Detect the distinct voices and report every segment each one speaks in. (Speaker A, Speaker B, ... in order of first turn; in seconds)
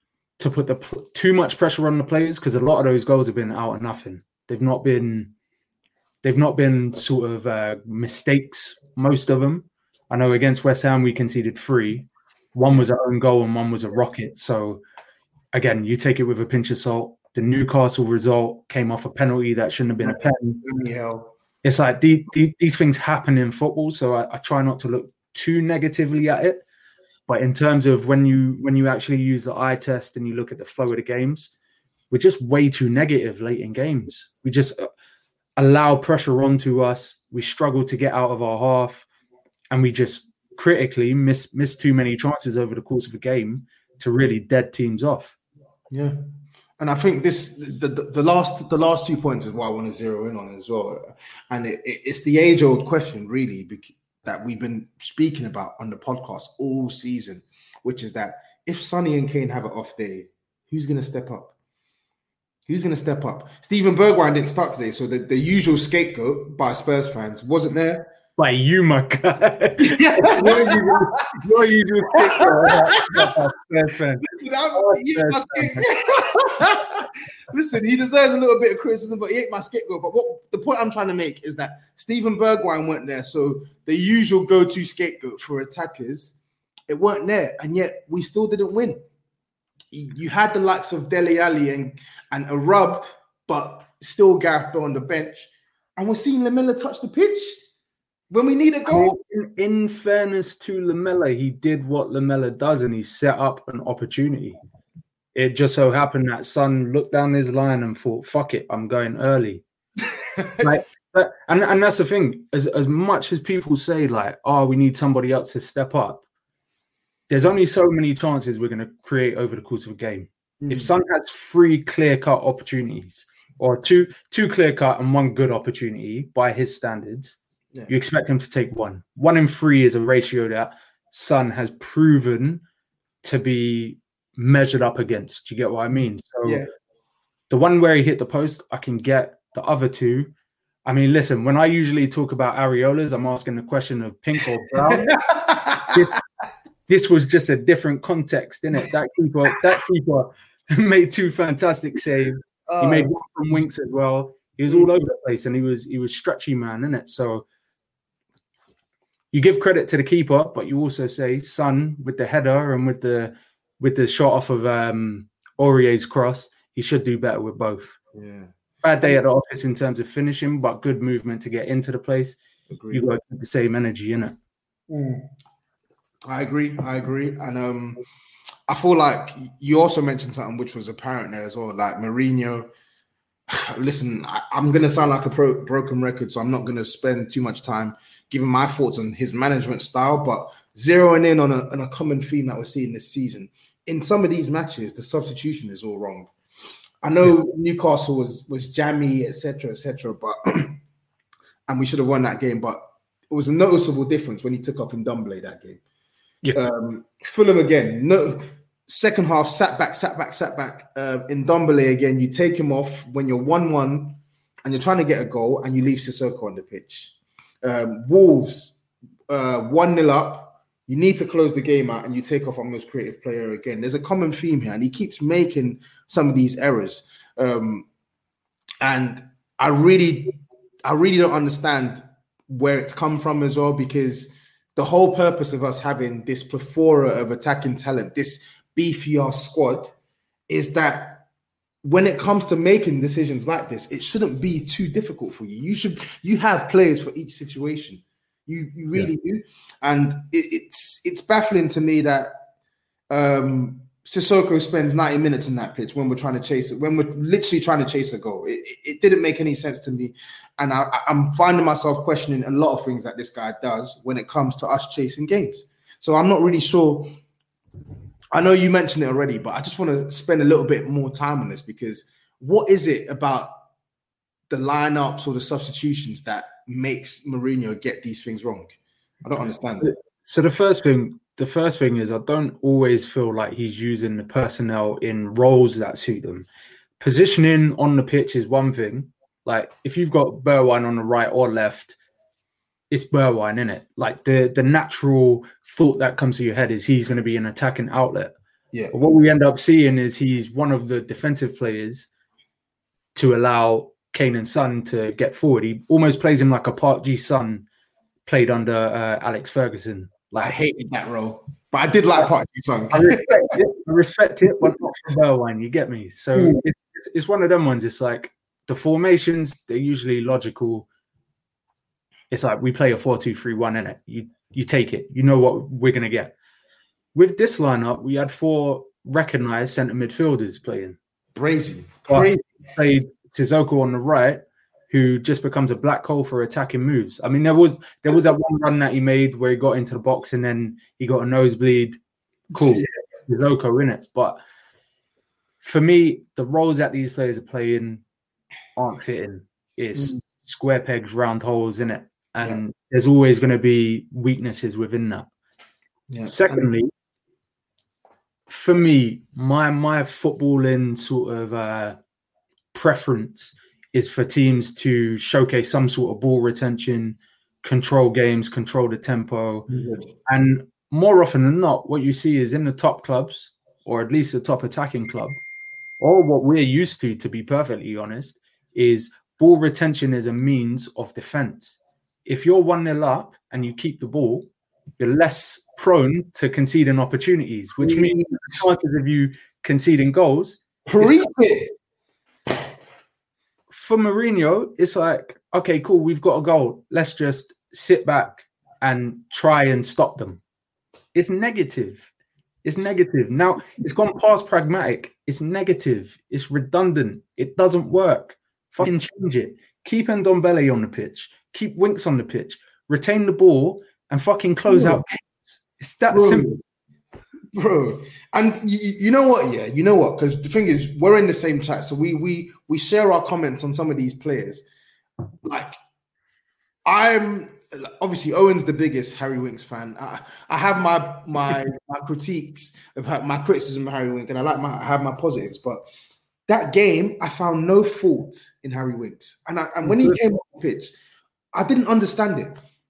Speaker A: 0.4-5.3, 6.2-14.8, 15.5-20.6, 21.6-26.6, 27.3-31.5, 32.1-34.9, 35.6-39.1, 39.7-45.4, 68.4-75.9, 76.6-76.8, 98.9-104.6, 105.3-109.6, 110.6-116.2, 117.3-127.4, 127.9-132.6, 133.2-136.6, 137.5-140.3, 140.9-145.2, 145.9-146.2, 146.9-157.4, 159.3-168.0, 168.8-172.4, 172.9-174.3, 279.8-286.5, 287.0-291.9, 292.9-298.4, 298.9-302.1, 303.1-307.7, 308.3-310.6, 312.9-320.9, 322.3-326.3, 327.1-331.0, 332.1-342.0, 342.5-344.4, 345.6-348.0, 348.8-355.3, 356.3-356.9, 358.5-362.0, 362.7-369.7, 370.3-375.4, 376.0-384.5, 385.0-391.3, 393.7-400.4, 401.1-402.1, 402.6-416.5, 439.9-440.2
Speaker B: 20.0-21.3, 45.9-46.2, 46.8-61.5, 62.7-68.1, 69.8-71.3, 72.1-73.3, 74.2-86.3, 86.9-89.0, 89.9-97.6, 98.3-99.1, 110.1-110.7, 120.6-120.9, 144.9-146.0, 152.7-153.1, 168.1-168.5, 172.7-173.1, 174.9-175.3, 176.3-178.0, 178.7-182.7, 183.5-196.3, 197.0-200.8, 201.7-205.8, 206.5-227.9, 228.8-239.9, 240.5-241.3, 241.8-252.3, 253.1-267.2, 268.3-273.6, 274.5-279.9, 310.4-313.6, 316.4-316.6, 331.3-332.5, 342.5-343.0, 356.1-356.7, 369.7-370.1, 387.8-388.6, 390.9-391.7, 414.7-415.1, 416.1-416.6, 417.5-424.6, 425.4-425.8, 426.9-435.8, 436.5-440.9, 441.5-442.6